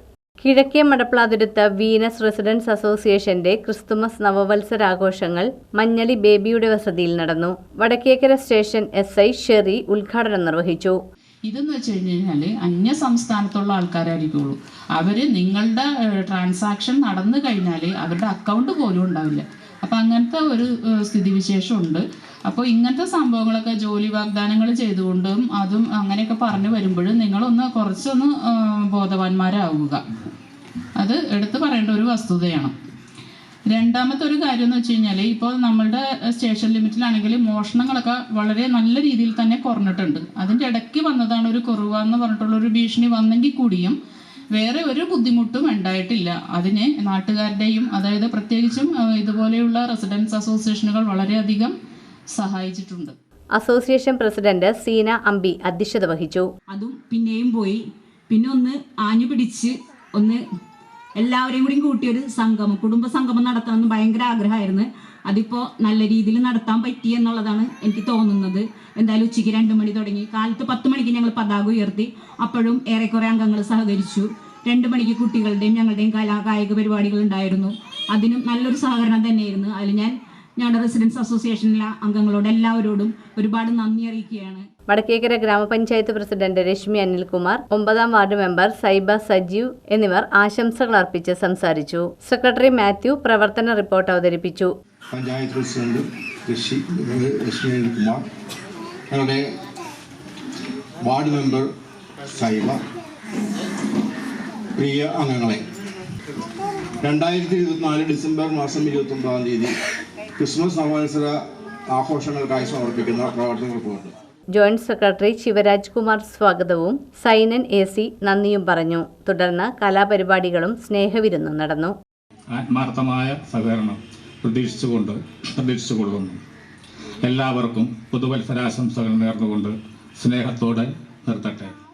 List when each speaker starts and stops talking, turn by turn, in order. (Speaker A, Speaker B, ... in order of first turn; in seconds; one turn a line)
Speaker A: 0.4-11.0
Speaker B: 11.5-30.0
Speaker B: 31.0-32.7
Speaker B: 33.7-44.0
Speaker B: 44.5-51.7
Speaker B: 52.3-53.1
Speaker A: 53.6-56.5
Speaker C: 56.7-60.4
Speaker C: 61.2-84.7
Speaker A: 84.9-94.7
Speaker D: 95.1-98.2
Speaker D: 99.1-99.5
Speaker D: 101.0-101.7
Speaker D: 102.3-102.8
Speaker D: 104.8-105.7
Speaker D: 107.0-109.7
Speaker D: 110.4-114.1
Speaker A: 114.5-122.0
Speaker E: 122.5-126.4
Speaker E: 127.2-131.7